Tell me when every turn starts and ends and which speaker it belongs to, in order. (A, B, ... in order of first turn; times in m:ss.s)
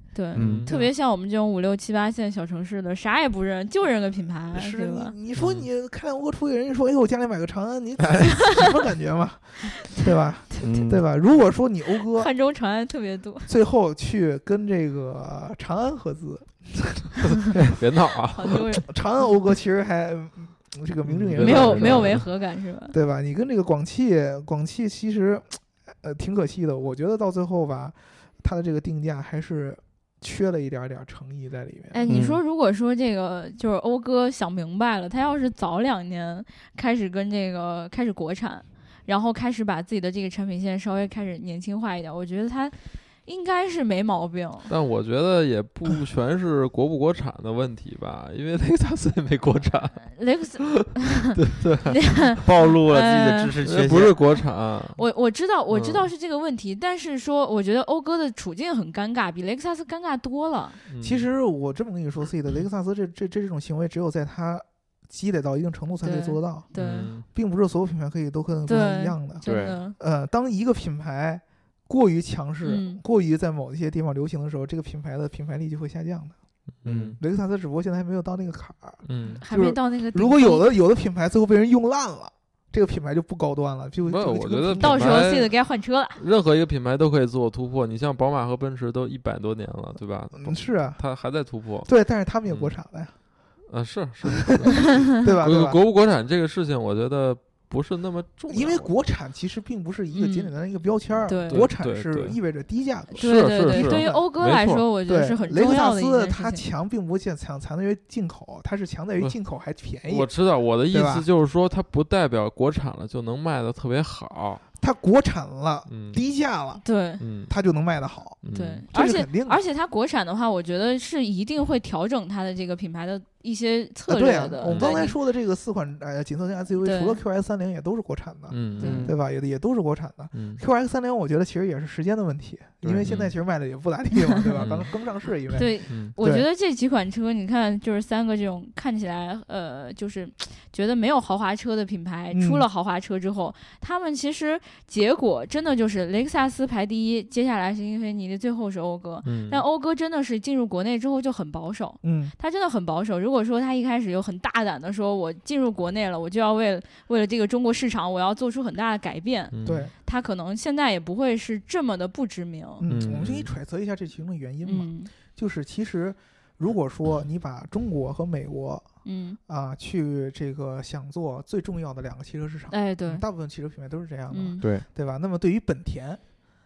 0:00.1-0:05.1 A
0:00.4-0:00.8 B
0:00.4-0:00.6 C
0:04.5-0:12.3 D
0:05.4-0:05.7 B
0:10.6-0:11.0 C
0:12.2-0:13.5 A
0:13.5-0:17.2 D
0:17.2-0:18.6 B
0:18.4-0:18.8 A
0:18.5-0:22.3 D
0:21.0-0:22.3 B
0:21.4-0:23.0 A
0:22.9-0:32.1 D
0:31.9-0:44.7 A
0:32.1-0:32.4 C
0:44.7-0:50.7 B
0:50.1-0:51.3 A
0:51.4-0:52.2 B
0:51.9-0:53.5 A
0:52.4-0:54.2 C
0:53.6-0:55.0 B
0:55.0-1:00.8 A
0:55.7-0:56.1 B
1:00.9-1:01.3 B
1:01.0-1:06.7 D
1:06.0-1:07.1 A
1:06.8-1:07.3 B
1:07.3-1:16.4 D
1:08.7-1:10.0 A
1:09.4-1:09.8 C
1:12.6-1:13.0 A
1:16.8-1:17.2 B
1:16.8-1:17.2 C
1:17.2-1:25.3 D
1:19.0-1:19.4 B
1:19.4-1:20.7 A
1:24.1-1:25.6 B
1:24.8-1:26.2 A
1:26.2-1:31.9 B
1:30.3-1:31.0 D
1:31.8-1:33.1 D
1:32.5-1:32.8 B
1:33.7-1:38.9 B
1:34.9-1:35.8 D
1:38.5-1:44.3 D
1:40.1-1:40.5 A
1:41.2-1:41.7 A
1:41.5-1:42.4 B
1:43.1-1:44.8 B
1:43.2-1:46.6 A
1:45.1-1:50.3 D
1:50.0-1:54.6 B
1:50.9-1:51.3 D
1:54.8-1:56.8 D
1:55.9-1:56.2 B
1:56.8-1:57.2 A
1:57.2-1:57.5 B
1:57.5-1:59.6 D
1:58.4-1:58.8 B
1:58.5-2:05.2 A
2:04.1-2:16.5 D
2:04.6-2:05.0 B
2:06.8-2:07.2 A
2:08.5-2:09.1 B
2:08.8-2:09.1 A
2:08.8-2:09.2 C
2:10.3-2:10.6 B
2:12.8-2:13.3 B
2:14.6-2:14.9 B
2:15.5-2:42.8 A
2:22.3-2:22.6 D
2:29.2-2:29.6 B
2:32.0-2:32.3 D
2:39.5-2:39.9 B
2:39.6-2:39.9 D
2:42.8-2:48.9 D
2:42.9-2:43.5 B
2:44.6-2:45.1 A
2:49.0-2:49.4 A
2:49.5-2:56.2 D
2:52.7-2:53.2 A
2:54.3-2:54.6 A